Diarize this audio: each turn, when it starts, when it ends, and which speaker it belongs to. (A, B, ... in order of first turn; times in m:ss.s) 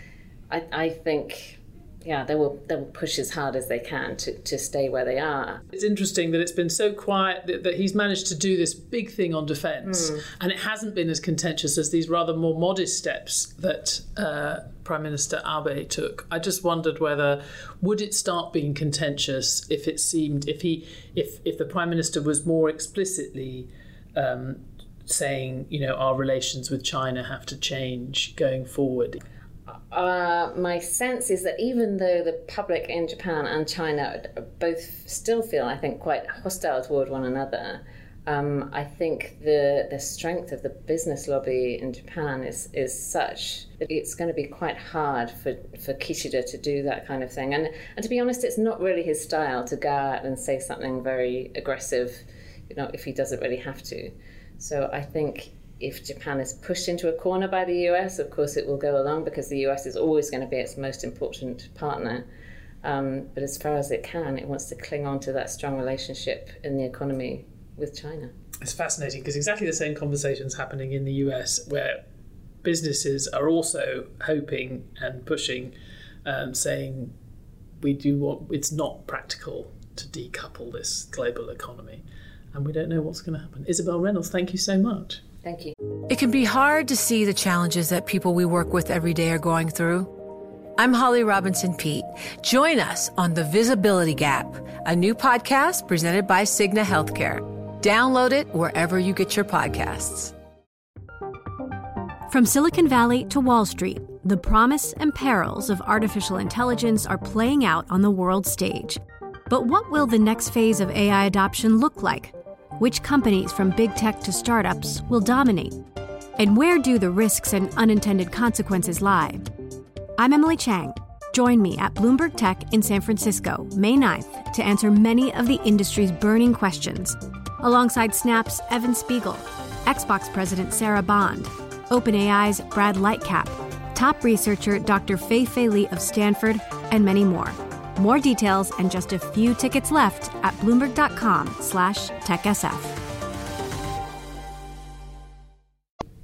0:00.5-0:05.6 A
0:05.7-0:29.2 B
0:09.8-0:10.2 A
0:29.9-1:02.3 A
1:02.8-1:08.3 A
1:08.6-1:12.0 B
1:12.6-1:17.1 B
1:17.8-1:25.2 B
1:25.4-1:25.8 A
1:26.1-1:30.1 C
1:30.8-1:40.3 C
1:42.3-1:59.6 D
2:00.2-2:23.0 D